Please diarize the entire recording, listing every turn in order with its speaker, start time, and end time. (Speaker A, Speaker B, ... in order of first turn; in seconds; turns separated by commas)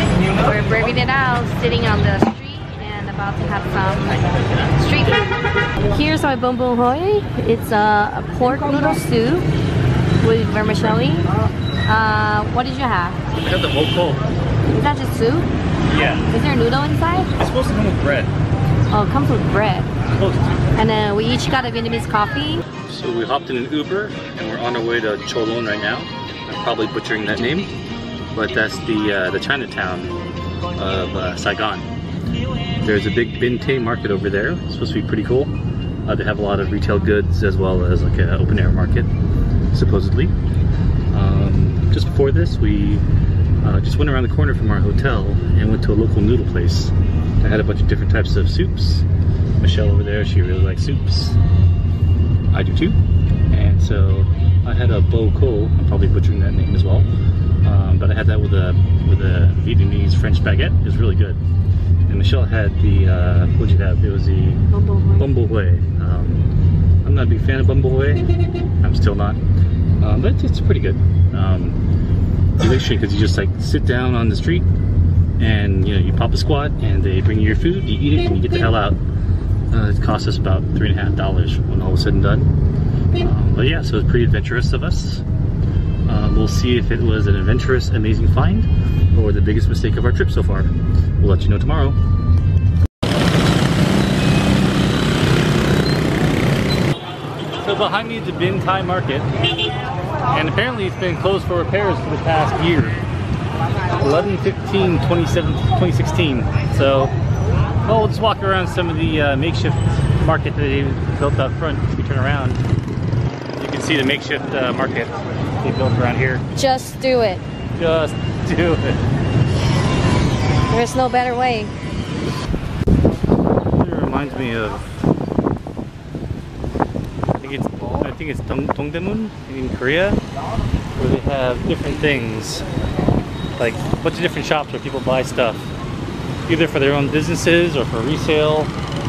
Speaker A: 0.4-4.2, Speaker B: 4.2-4.7, Speaker A: 4.8-5.3, Speaker A: 5.8-9.4, Speaker A: 10.2-11.3, Speaker A: 11.8-13.2, Speaker B: 13.4-14.2, Speaker A: 14.7-15.5, Speaker B: 15.8-16.3, Speaker A: 16.3-17.3, Speaker B: 17.4-18.3, Speaker A: 18.9-19.9, Speaker B: 20.1-20.7, Speaker A: 20.8-22.6, Speaker B: 22.9-27.7, Speaker B: 28.3-30.1, Speaker B: 30.8-31.9, Speaker B: 32.8-35.5, Speaker B: 36.0-39.1, Speaker B: 39.7-40.3, Speaker B: 41.1-43.0, Speaker B: 43.6-49.0, Speaker B: 49.6-51.4, Speaker B: 52.5-53.0, Speaker B: 53.5-57.1, Speaker B: 57.6-61.4, Speaker B: 62.1-64.6, Speaker A: 64.7-65.3, Speaker B: 65.2-66.5, Speaker B: 67.0-68.2, Speaker B: 68.8-69.4, Speaker B: 70.0-71.8, Speaker B: 72.6-74.7, Speaker B: 75.4-79.0, Speaker B: 79.7-82.5, Speaker B: 83.2-85.2, Speaker B: 86.1-92.0, Speaker B: 97.6-99.3, Speaker B: 100.3-103.0, Speaker B: 104.0-107.1, Speaker B: 107.8-112.6, Speaker B: 113.5-116.4, Speaker A: 116.5-117.4, Speaker B: 117.7-119.0, Speaker A: 120.7-121.7, Speaker B: 123.6-124.9, Speaker B: 127.4-130.2, Speaker B: 131.0-132.6, Speaker B: 133.6-135.7, Speaker B: 136.5-138.7